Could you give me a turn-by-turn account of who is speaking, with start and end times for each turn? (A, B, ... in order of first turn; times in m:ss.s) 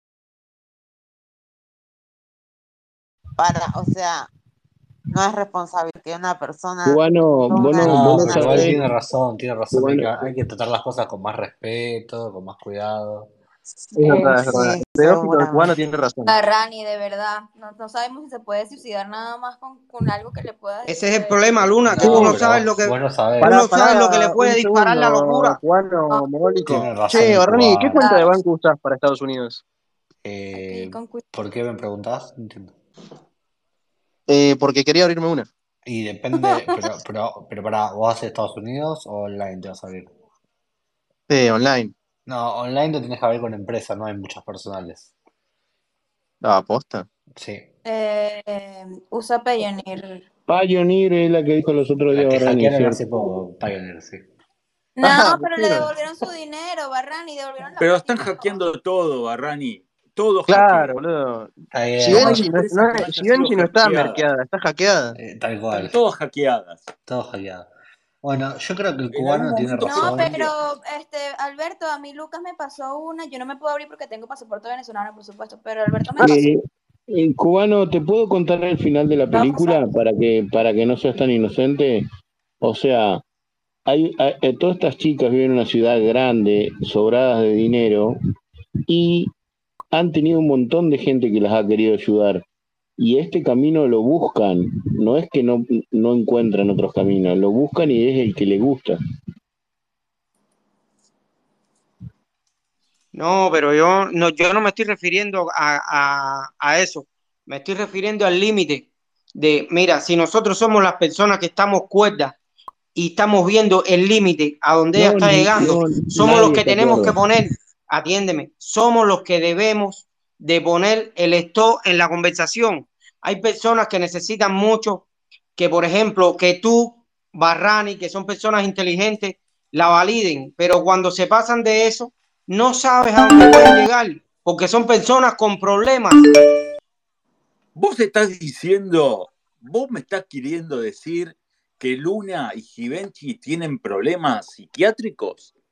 0:03.4-0:04.3 A
0:05.1-0:08.7 A
0:06.8-0:08.8 B
0:07.8-0:13.3 C
0:09.7-0:10.3 B
0:14.0-0:16.4 D
0:14.0-0:15.8 A
0:16.3-0:21.7 E
0:20.9-0:25.6 F
0:21.9-0:23.6 C
0:22.0-0:22.3 D
0:23.4-0:29.6 D
0:26.7-0:28.3 C
0:28.0-0:28.4 E
0:30.2-0:32.7 C
0:30.5-0:31.2 E
0:34.3-0:35.5 D
0:35.9-0:40.1 C
0:36.4-0:36.7 E
0:41.3-0:41.9 D
0:42.3-0:45.1 C
0:46.4-0:47.1 D
0:47.4-0:47.7 C
0:47.8-0:50.2 E
0:50.5-0:53.3 B
0:52.1-0:54.2 C
0:55.0-0:58.6 E
0:55.0-0:55.9 D
0:57.8-1:01.0 G
1:00.5-1:05.1 D
1:01.7-1:02.5 C
1:02.1-1:04.3 G
1:05.2-1:06.0 C
1:05.7-1:06.9 G
1:07.1-1:07.7 C
1:08.2-1:10.5 C
1:09.1-1:10.5 G
1:09.8-1:16.4 E
1:16.2-1:22.1 B
1:19.3-1:19.8 E
1:22.6-1:23.2 B
1:23.9-1:28.2 B
1:28.9-1:29.3 B
1:29.9-1:32.4 B
1:33.0-1:39.0 B
1:43.2-1:52.4 F
1:53.0-2:05.1 F
1:55.0-1:57.2 B
2:05.6-2:16.2 F
2:17.8-2:25.5 G